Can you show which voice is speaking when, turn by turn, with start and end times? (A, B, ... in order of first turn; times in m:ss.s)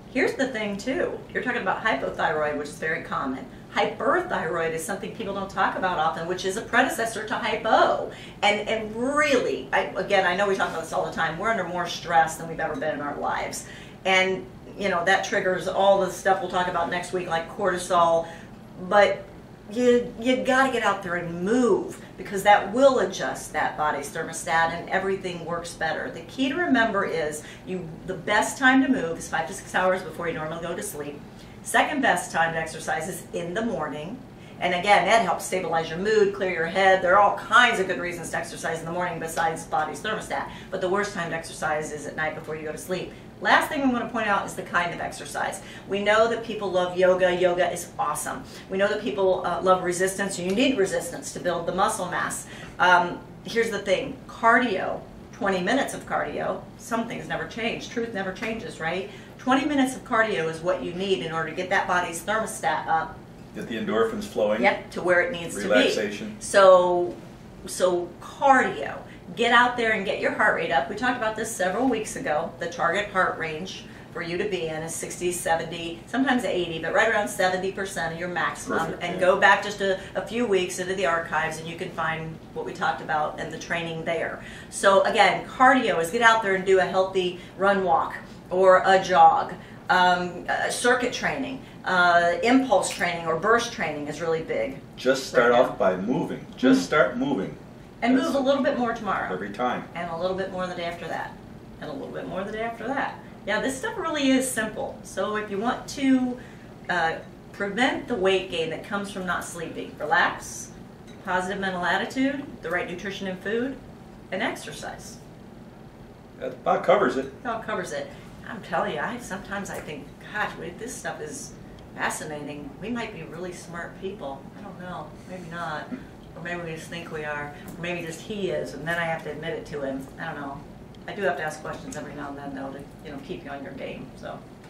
0:00.1-1:03.1 A
1:03.5-1:04.7 B
1:04.6-1:07.2 A
1:05.5-1:06.3 B
1:07.7-1:35.7 A
1:18.7-1:19.3 B
1:35.0-1:38.5 B
1:36.6-1:36.9 A
1:38.0-1:39.4 A
1:39.3-1:39.9 B
1:39.9-1:50.7 A
1:51.2-1:53.8 A
1:54.3-1:55.2 A
1:56.4-1:57.3 B
1:57.4-2:14.4 A